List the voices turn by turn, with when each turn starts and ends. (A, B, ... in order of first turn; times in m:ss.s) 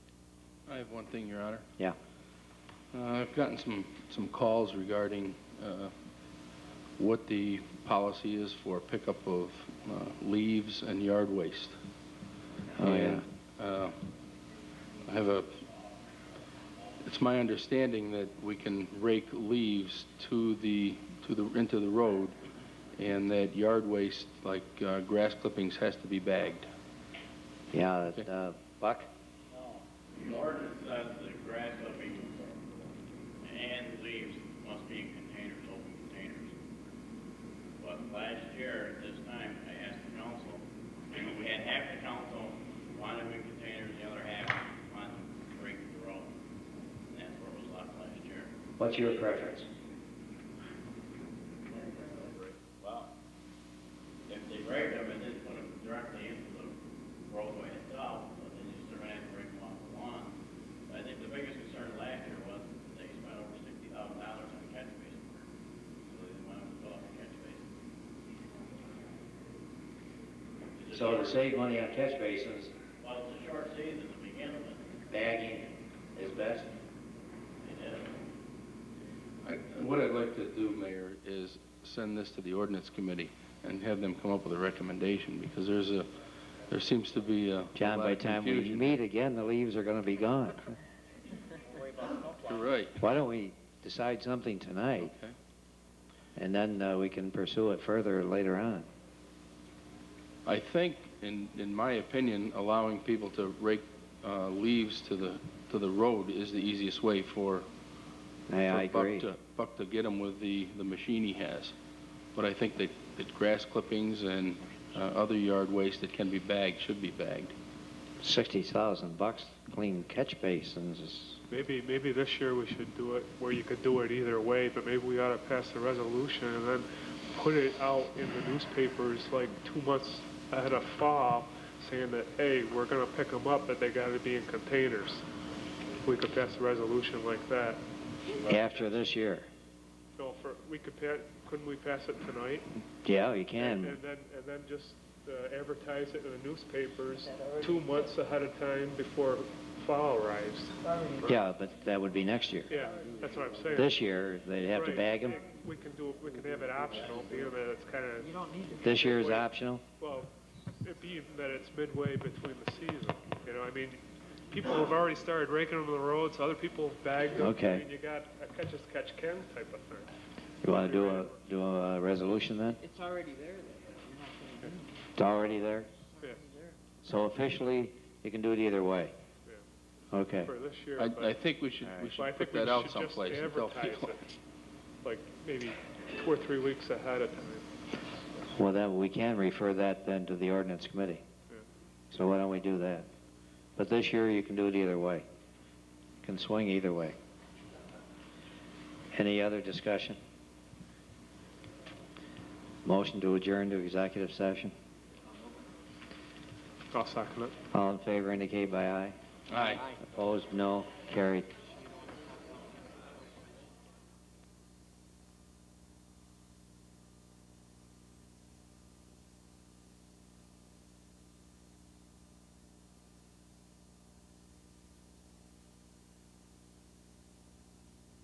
0:00.7-0:01.7 A
0:02.9-0:05.9 A
0:07.0-0:11.8 A
0:12.8-0:13.2 B
0:12.8-0:14.0 A
0:15.0-0:15.6 A
0:17.0-0:22.4 A
0:23.0-0:26.7 A
0:27.7-0:29.1 B
0:29.5-0:32.8 C
0:33.4-0:36.6 C
0:37.8-0:46.3 C
0:47.1-0:49.1 C
0:48.8-0:49.7 B
0:51.7-0:53.1 C
0:54.3-1:00.4 C
1:00.9-1:05.5 C
1:06.0-1:07.6 C
1:10.8-1:11.8 C
1:10.9-1:12.7 B
1:13.0-1:14.9 C
1:15.1-1:16.7 B
1:17.6-1:18.2 C
1:19.4-1:26.1 A
1:26.7-1:29.0 A
1:27.8-1:30.8 B
1:32.4-1:33.0 A
1:33.0-1:35.1 B
1:35.0-1:35.4 A
1:36.4-1:38.9 B
1:40.5-1:47.7 A
1:48.5-1:49.3 B
1:48.7-1:51.8 A
1:52.4-1:57.5 A
1:58.2-2:01.4 B
2:01.5-2:15.2 D
2:16.0-2:17.8 D
2:18.4-2:19.0 D
2:18.4-2:19.5 B
2:20.2-2:22.7 D
2:23.0-2:24.0 B
2:23.6-2:30.8 D
2:31.2-2:32.7 B
2:32.7-2:33.9 D
2:33.8-2:35.4 B
2:34.7-2:38.4 D
2:38.4-2:38.8 E
2:38.8-2:39.8 B
2:39.0-2:39.4 D
2:40.0-2:40.3 D
2:40.8-2:50.1 D
2:47.4-2:47.8 B
2:50.6-2:52.8 B
2:50.7-2:51.4 D
2:52.9-2:54.7 E
2:55.2-2:55.9 B
2:57.0-2:59.1 B
3:00.1-3:00.5 B
3:00.4-3:01.4 D
3:01.0-3:04.2 A
3:01.8-3:02.1 B
3:02.2-3:04.2 D
3:05.0-3:07.7 D
3:08.6-3:11.2 B
3:12.1-3:13.1 B
3:13.8-3:15.2 B
3:16.2-3:17.2 B
3:19.1-3:20.2 B
3:22.8-3:24.7 B
3:26.9-3:27.5 D
3:27.7-3:29.2 B
3:29.5-3:29.8 A
3:29.9-3:31.5 B